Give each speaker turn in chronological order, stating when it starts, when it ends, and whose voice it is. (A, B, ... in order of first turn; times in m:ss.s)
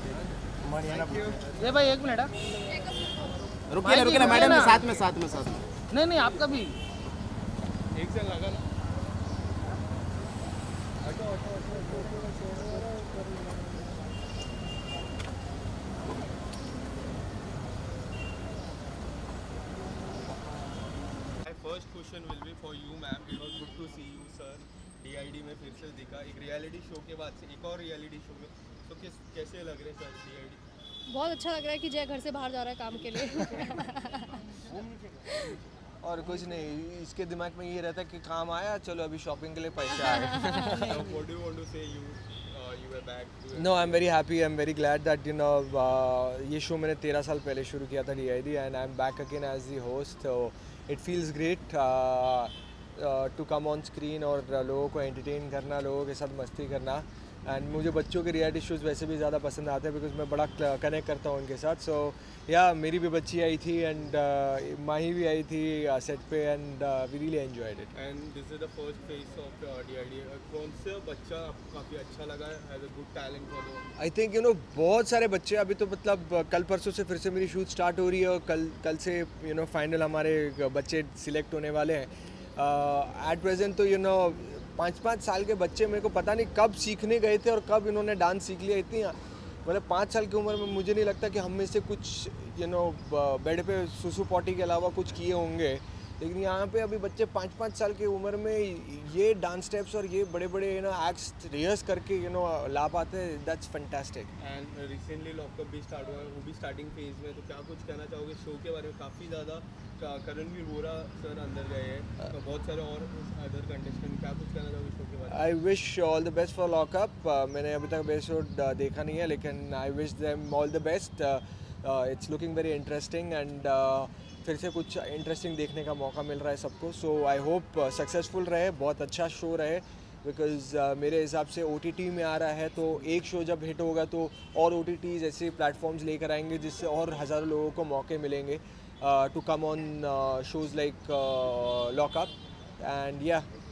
0:00.6-0:01.4 A
0:00.9-0:01.3 B
0:01.6-0:02.3 C
0:03.7-0:05.7 A
0:03.8-0:04.8 C
0:05.9-0:06.8 C
0:07.9-0:08.6 B
0:21.4-0:30.6 B
0:31.1-0:34.4 D
0:36.0-0:41.0 E
0:40.0-0:41.0 D
0:40.8-0:44.1 B
0:43.6-1:07.9 E
1:07.9-1:13.8 B
1:14.0-1:44.3 E
1:44.4-1:55.5 B
1:55.3-2:23.5 E